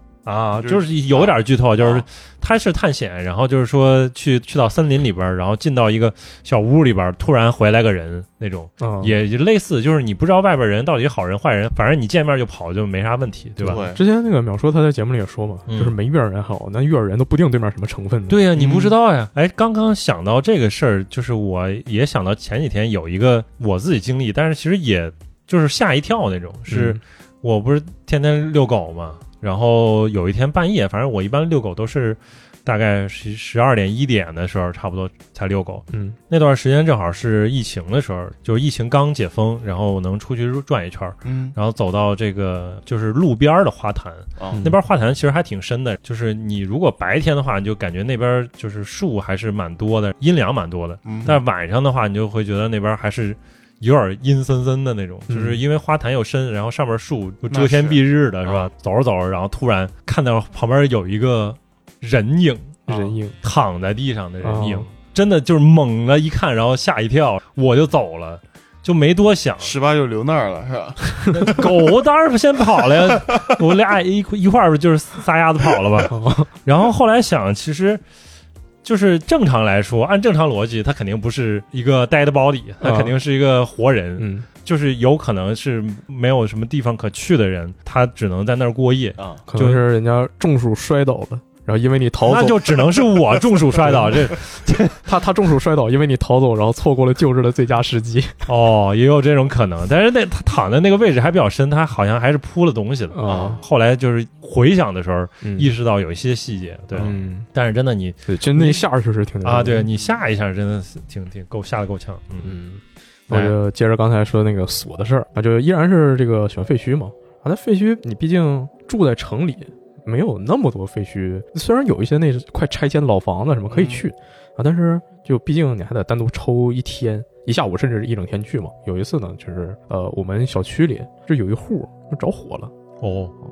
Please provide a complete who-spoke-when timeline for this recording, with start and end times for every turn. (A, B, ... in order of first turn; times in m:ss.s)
0:00.3-0:13.8 A
0:00.6-0:02.0 B
0:08.8-0:09.2 C
0:13.6-0:14.0 B
0:13.7-0:18.4 C
0:15.7-0:16.0 A
0:18.3-1:02.8 A
0:18.6-0:18.9 B
0:26.7-0:27.0 C
0:35.9-0:36.2 C
0:41.2-0:41.6 B
0:44.4-0:44.7 B
0:44.5-0:44.8 C
0:51.0-0:51.4 B
0:55.3-0:55.6 C
0:57.5-0:58.7 B
1:02.9-1:03.1 B
1:02.9-1:03.4 C
1:03.4-1:09.7 A
1:04.4-1:04.9 C
1:09.6-1:11.7 B
1:11.3-1:18.0 A
1:16.1-1:16.5 C
1:18.8-1:29.8 A
1:22.8-1:23.2 C
1:24.2-1:24.5 C
1:29.2-1:29.4 B
1:29.5-1:32.9 C
1:32.2-1:35.0 A
1:33.8-1:34.3 C
1:35.0-1:38.5 C
1:38.5-1:48.8 A
1:43.1-1:43.6 C
1:43.2-1:43.6 B
1:45.4-1:45.7 C
1:47.0-1:47.5 C
1:48.3-1:49.9 C
1:49.4-1:52.5 A
1:52.4-2:12.7 C
2:03.7-2:04.0 B
2:13.0-2:13.3 A